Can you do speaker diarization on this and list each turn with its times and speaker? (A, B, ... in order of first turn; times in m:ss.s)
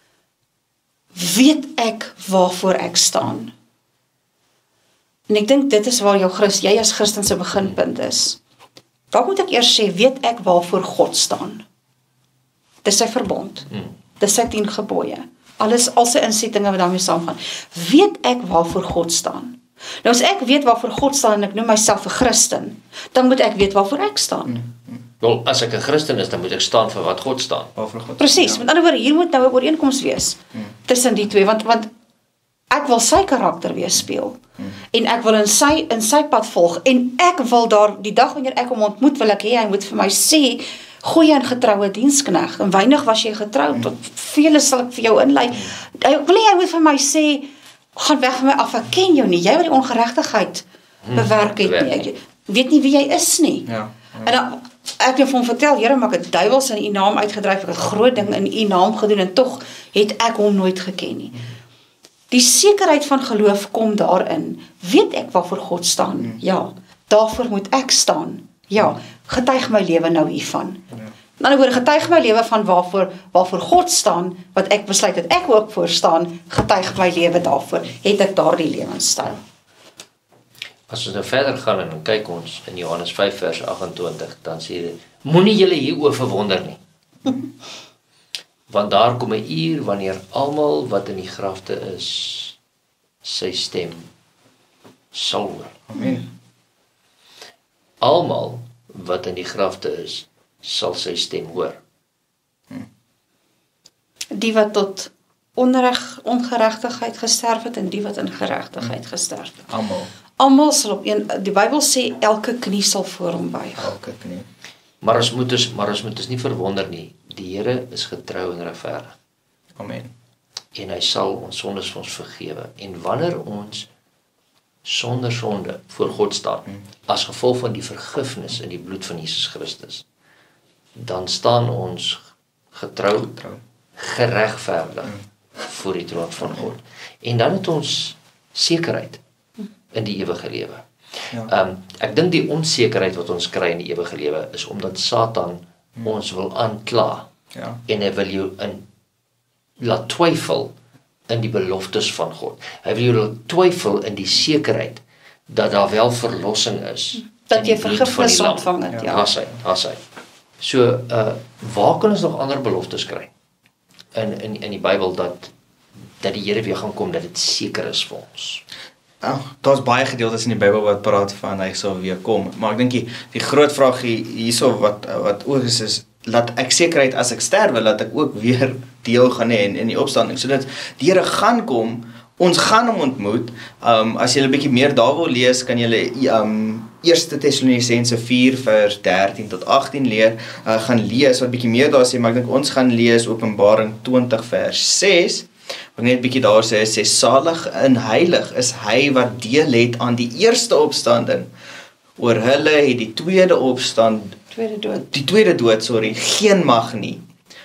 0:01.1-0:03.5 A
0:05.3-0:08.4 A
0:09.1-0:11.6 A
0:12.8-0:13.7 A
0:13.7-0:13.9 B
0:14.2-0:24.6 A
0:24.5-0:25.0 C
0:25.2-0:27.7 B
0:27.8-0:28.6 C
0:28.2-0:31.9 A
0:32.7-0:34.4 A
0:34.9-0:53.7 A
0:51.0-0:52.1 B
0:53.7-0:54.3 C
0:54.2-1:01.4 A
1:02.3-1:10.8 A
1:11.4-1:19.4 A
1:20.9-1:26.8 B
1:28.7-1:32.6 B
1:33.2-1:34.1 B
1:35.1-1:35.8 B
1:35.9-1:36.2 C
1:36.0-1:36.2 A
1:38.0-1:41.8 B
1:44.3-1:49.7 A
1:49.7-1:50.1 C
1:50.4-1:53.9 A
1:53.8-1:54.5 C
1:55.0-1:59.2 B
1:59.8-2:00.1 C
2:00.7-2:03.9 B
2:04.8-2:10.0 B
2:11.0-2:12.2 B
2:12.7-2:13.3 B
2:13.2-2:13.6 C
2:14.0-2:19.2 B
2:19.9-2:20.8 B
2:21.4-2:27.3 B
2:27.5-2:27.8 C
2:27.9-2:28.8 B
2:29.8-2:30.7 B
2:31.3-2:40.0 B
2:37.3-2:39.3 A
2:40.6-2:43.3 B
2:44.1-2:45.5 B
2:46.2-2:48.6 B
2:49.2-3:21.5 C
3:22.2-3:24.4 C
3:24.5-3:25.1 A
3:25.1-3:27.2 C